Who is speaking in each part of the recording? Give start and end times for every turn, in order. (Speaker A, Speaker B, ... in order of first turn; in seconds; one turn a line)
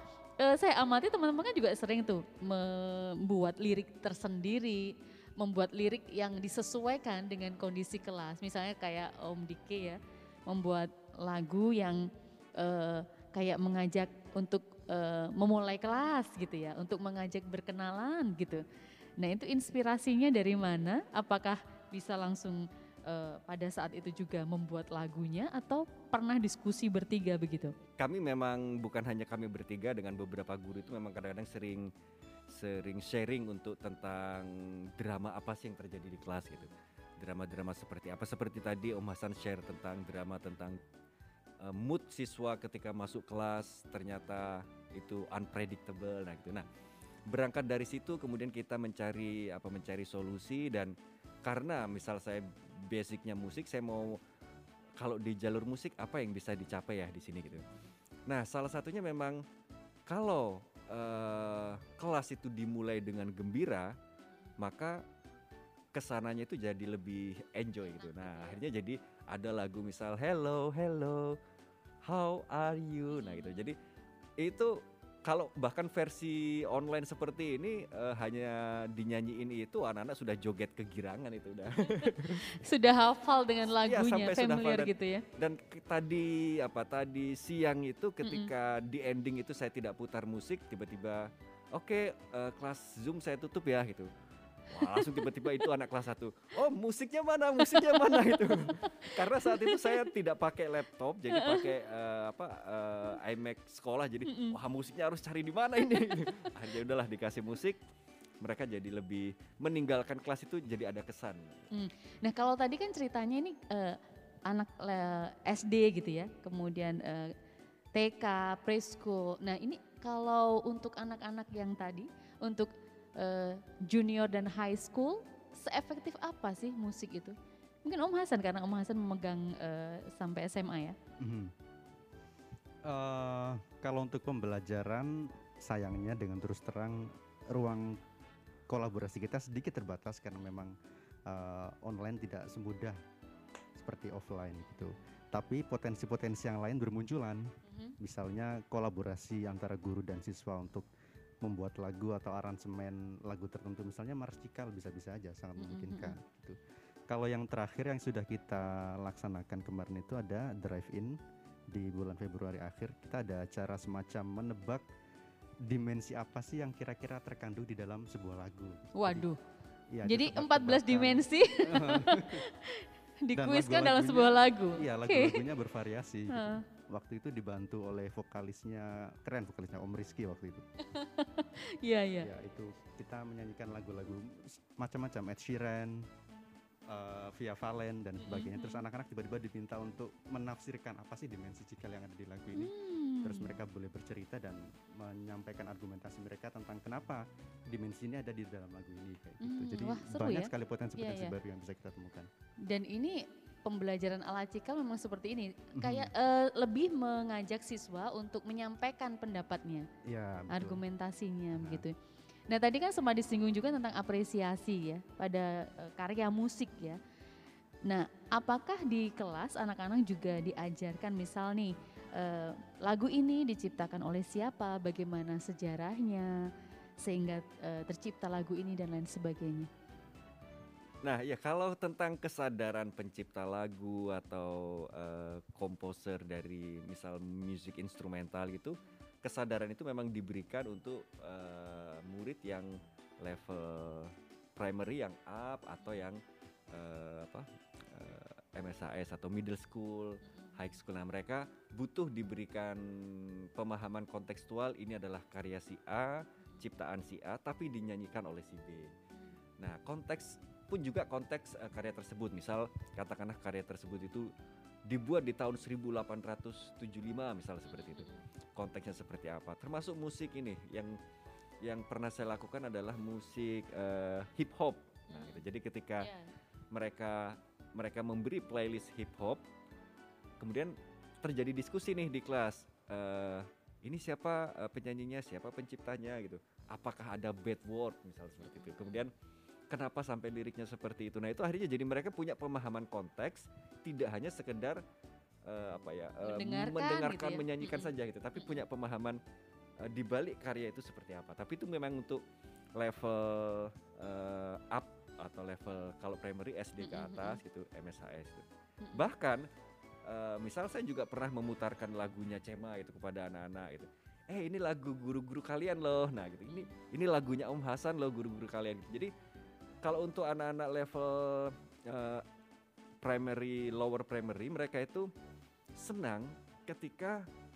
Speaker A: 0.4-18.6
Speaker A: 19.2-27.7
Speaker B: 28.0-31.9
Speaker B: 32.5-40.8
Speaker B: 41.6-46.7
Speaker B: 47.3-50.9
Speaker B: 51.4-54.2
Speaker B: 55.0-57.6
Speaker A: 57.5-57.9
Speaker B: 58.3-59.4
Speaker B: 60.1-64.0
Speaker B: 64.6-65.0
Speaker B: 65.9-71.4
Speaker A: 67.9-68.6
Speaker B: 72.0-73.8
Speaker A: 73.1-73.7
Speaker B: 74.4-82.6
Speaker A: 81.9-85.2
Speaker B: 83.8-94.1
Speaker A: 88.2-88.5
Speaker B: 94.7-107.8
Speaker A: 94.7-95.6
Speaker A: 97.6-98.2
Speaker A: 98.8-100.0
Speaker A: 101.3-101.7
Speaker A: 104.2-104.5
Speaker A: 106.2-106.5
Speaker B: 108.4-111.7
Speaker A: 111.7-117.3
Speaker A: 117.9-130.9
Speaker C: 131.2-131.5
Speaker C: 132.8-138.0
Speaker C: 138.7-140.7
Speaker C: 141.3-143.0
Speaker C: 143.7-150.9
Speaker A: 147.7-147.9
Speaker C: 151.4-156.6
Speaker A: 155.6-156.2
Speaker C: 157.1-161.2
Speaker C: 161.7-164.8
Speaker C: 165.6-169.3
Speaker A: 168.9-169.4
Speaker C: 169.9-172.5
Speaker A: 170.0-175.4
Speaker C: 173.3-180.6
Speaker A: 176.3-176.6
Speaker A: 180.8-182.3
Speaker C: 182.2-186.1
Speaker C: 186.9-202.3
Speaker A: 188.2-188.8
Speaker A: 192.5-193.6
Speaker A: 199.4-201.3
Speaker A: 202.7-209.9
Speaker C: 205.8-206.1
Speaker C: 210.0-210.8
Speaker A: 210.5-211.9
Speaker C: 211.5-211.8
Speaker A: 212.5-217.0
Speaker A: 217.8-226.4
Speaker A: 227.0-229.7
Speaker B: 231.0-258.9
Speaker B: 259.6-264.3
Speaker B: 264.9-271.0
Speaker A: 267.7-268.2
Speaker B: 271.6-276.1
Speaker A: 275.1-275.4
Speaker A: 276.0-276.3
Speaker B: 276.7-279.4
Speaker B: 280.4-289.1
Speaker A: 288.4-289.0
Speaker B: 289.7-294.8
Speaker B: 295.4-299.2
Speaker A: 296.2-298.6
Speaker B: 299.8-302.2
Speaker B: 302.8-309.5
Speaker A: 306.8-307.4
Speaker B: 310.0-319.1
Speaker B: 319.8-322.2
Speaker B: 323.0-325.1
Speaker B: 325.8-327.3